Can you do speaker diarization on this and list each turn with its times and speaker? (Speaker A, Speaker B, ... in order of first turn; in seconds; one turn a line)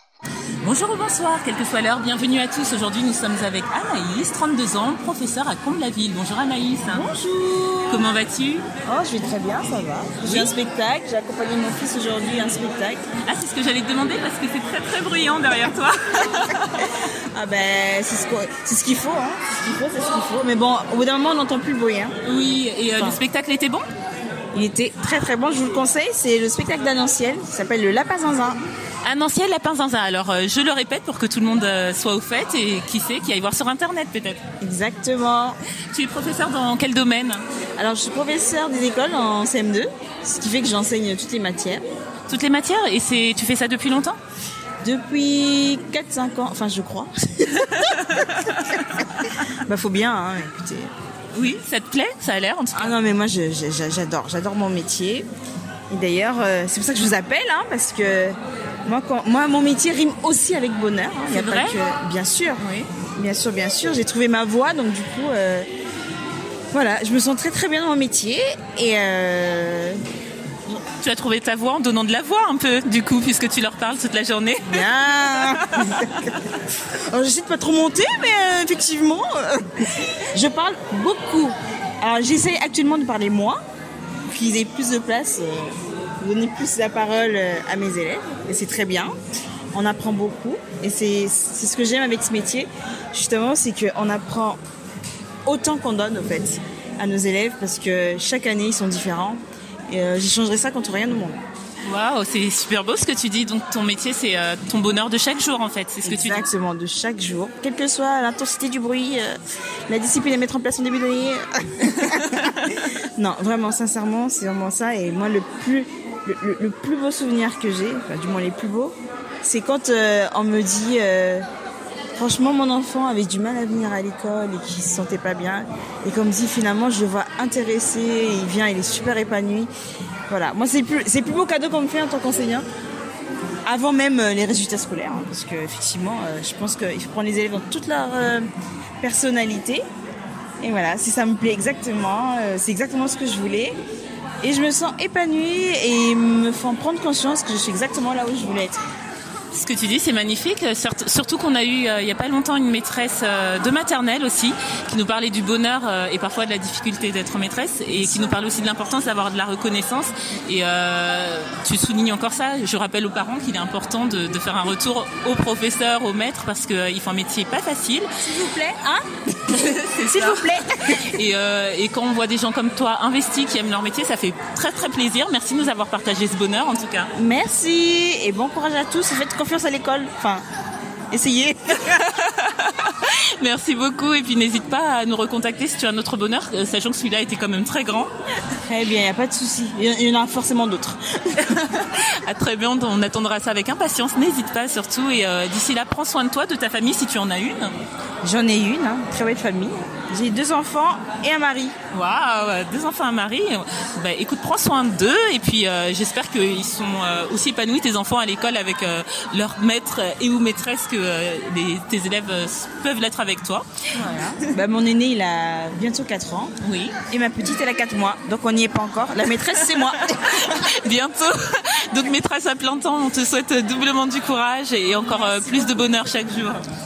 Speaker A: 0.6-7.1
Speaker B: 6.9-8.0
Speaker A: 7.9-8.7
Speaker B: 8.8-13.0
Speaker A: 10.2-10.5
Speaker A: 13.2-16.9
Speaker B: 17.3-22.1
Speaker A: 22.2-23.9
Speaker B: 22.9-23.2
Speaker B: 24.5-28.6
Speaker A: 29.0-34.4
Speaker B: 34.6-35.6
Speaker A: 35.9-37.5
Speaker B: 37.8-41.8
Speaker A: 42.3-44.2
Speaker B: 44.8-48.2
Speaker A: 47.7-49.2
Speaker B: 49.7-50.9
Speaker A: 51.3-53.0
Speaker B: 52.7-55.3
Speaker B: 55.9-65.7
Speaker A: 61.3-61.8
Speaker B: 66.7-70.0
Speaker A: 70.9-74.8
Speaker B: 74.7-76.3
Speaker A: 75.4-76.0
Speaker B: 77.1-79.7
Speaker B: 80.3-83.6
Speaker B: 84.3-89.1
Speaker B: 89.7-94.6
Speaker B: 95.5-101.4
Speaker A: 101.8-106.5
Speaker B: 106.0-112.3
Speaker A: 112.1-112.7
Speaker B: 113.2-121.5
Speaker B: 122.2-129.7
Speaker B: 130.3-132.7
Speaker B: 133.7-138.5
Speaker B: 139.0-139.8
Speaker B: 140.6-143.8
Speaker B: 144.4-148.8
Speaker A: 149.5-168.1
Speaker B: 157.9-158.4
Speaker B: 168.2-169.0
Speaker A: 169.5-177.1
Speaker B: 170.1-171.0
Speaker B: 177.2-180.4
Speaker B: 181.1-181.9
Speaker A: 181.8-188.1
Speaker B: 188.7-191.4
Speaker A: 191.5-197.7
Speaker B: 198.2-201.8
Speaker A: 201.9-213.7
Speaker B: 214.0-216.5
Speaker A: 216.6-217.0
Speaker B: 217.1-220.3
Speaker A: 219.8-226.7
Speaker B: 225.2-225.7